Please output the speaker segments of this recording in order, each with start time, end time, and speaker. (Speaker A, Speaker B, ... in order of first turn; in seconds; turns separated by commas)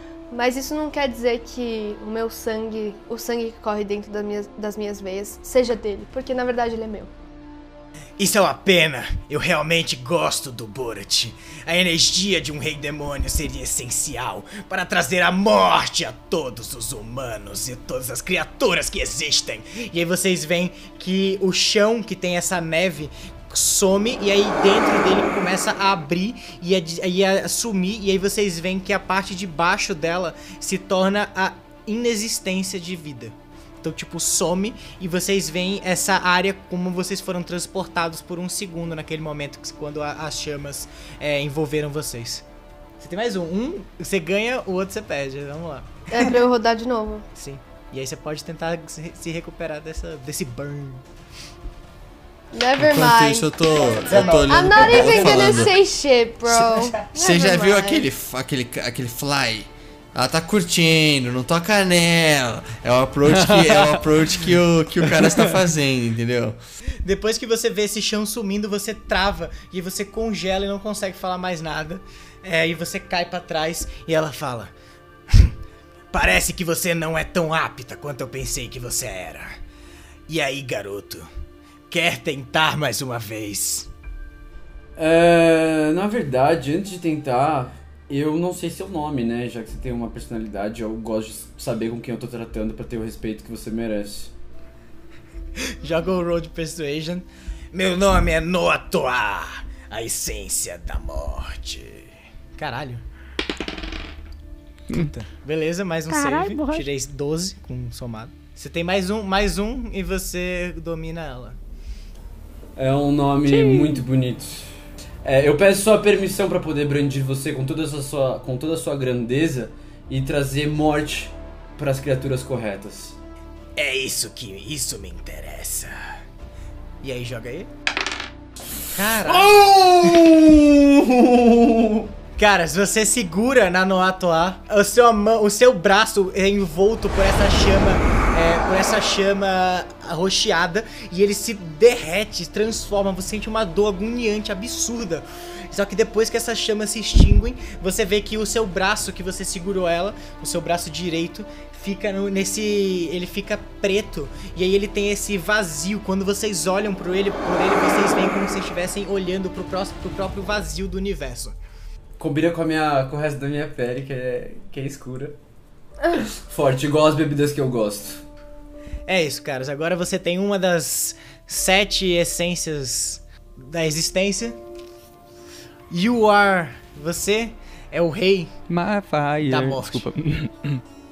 Speaker A: 0.3-7.1, Speaker B: 8.2-42.4, Speaker B: 43.0-46.4, Speaker A: 46.1-47.2, Speaker B: 47.3-51.0, Speaker A: 52.5-58.0, Speaker C: 52.8-55.7, Speaker B: 54.0-55.6, Speaker C: 56.5-66.6, Speaker D: 63.4-64.0, Speaker D: 65.2-65.5, Speaker B: 67.0-74.7, Speaker B: 76.1-79.5, Speaker B: 80.3-81.3, Speaker B: 81.9-83.9, Speaker E: 85.0-94.3, Speaker B: 95.6-103.0, Speaker B: 104.9-111.6, Speaker E: 112.8-114.7, Speaker E: 115.2-123.2, Speaker B: 123.8-125.9, Speaker B: 127.0-127.7, Speaker B: 128.9-129.7, Speaker E: 129.1-132.1, Speaker B: 132.4-161.6, Speaker E: 162.2-165.3, Speaker E: 166.2-168.2, Speaker B: 169.1-174.6, Speaker B: 175.9-178.5, Speaker D: 178.7-180.8, Speaker B: 179.4-180.0